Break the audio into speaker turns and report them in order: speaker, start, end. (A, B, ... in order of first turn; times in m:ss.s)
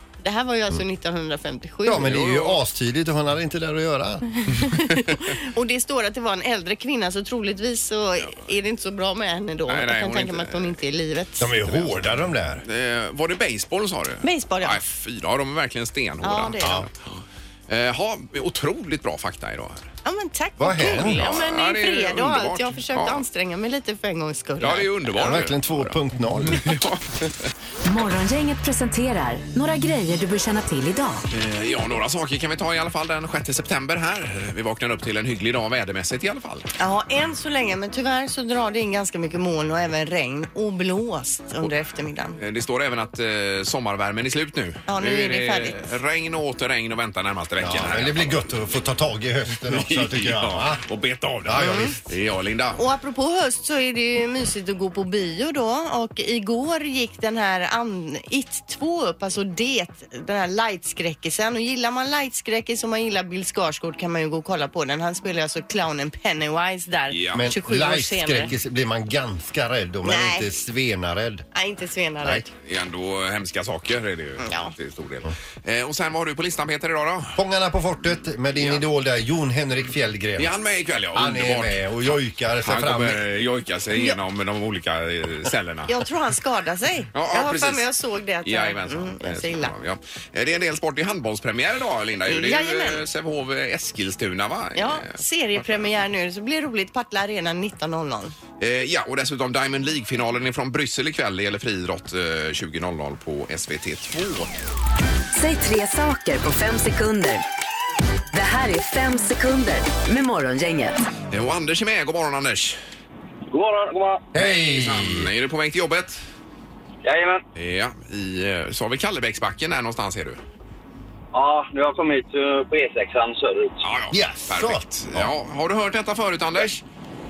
0:00.2-0:02.2 A
0:01.8-0:04.3 B
0:01.9-0:02.6 C
0:04.5-0:11.8 A
0:09.7-0:10.8 C
0:11.4-0:12.6 B
0:12.6-0:19.9 C
0:14.2-0:14.8 A
0:16.2-0:16.9 A
0:16.6-0:16.9 B
0:20.0-0:24.9 A
0:20.6-0:21.3 B
0:20.8-0:23.2 C
0:24.6-0:27.3 C
0:25.1-0:26.6 B
0:27.8-0:31.2 D
0:31.3-0:36.7 C
0:36.8-0:42.4 A
0:42.4-0:48.4 C
0:44.9-0:45.8 A
0:47.6-0:50.8 B
0:49.6-0:52.8 C
0:51.4-0:52.0 B
0:51.6-0:51.9 A
0:52.8-1:08.5 A
1:07.1-1:07.5 C
1:07.3-1:11.5 B
1:10.0-1:10.5 A
1:11.5-1:12.5 A
1:12.6-1:17.4 C
1:14.4-1:14.7 A
1:17.4-1:20.5 B
1:18.6-1:18.8 C
1:20.4-1:25.9 C
1:21.1-1:23.2 B
1:23.9-1:24.2 A
1:25.9-1:29.7 A
1:27.1-1:27.8 C
1:28.4-1:35.8 C
1:32.3-1:33.0 A
1:34.7-1:38.3 A
1:38.6-1:44.5 C
1:45.3-1:47.4 D
1:48.3-1:51.0 D
1:51.3-1:52.8 C
1:53.5-1:54.3 E
1:54.3-1:55.3 B
1:54.4-1:56.2 C
1:57.0-1:57.4 E
1:57.6-2:00.4 C
2:01.3-2:03.8 E
2:03.8-2:06.8 C
2:04.1-2:05.3 B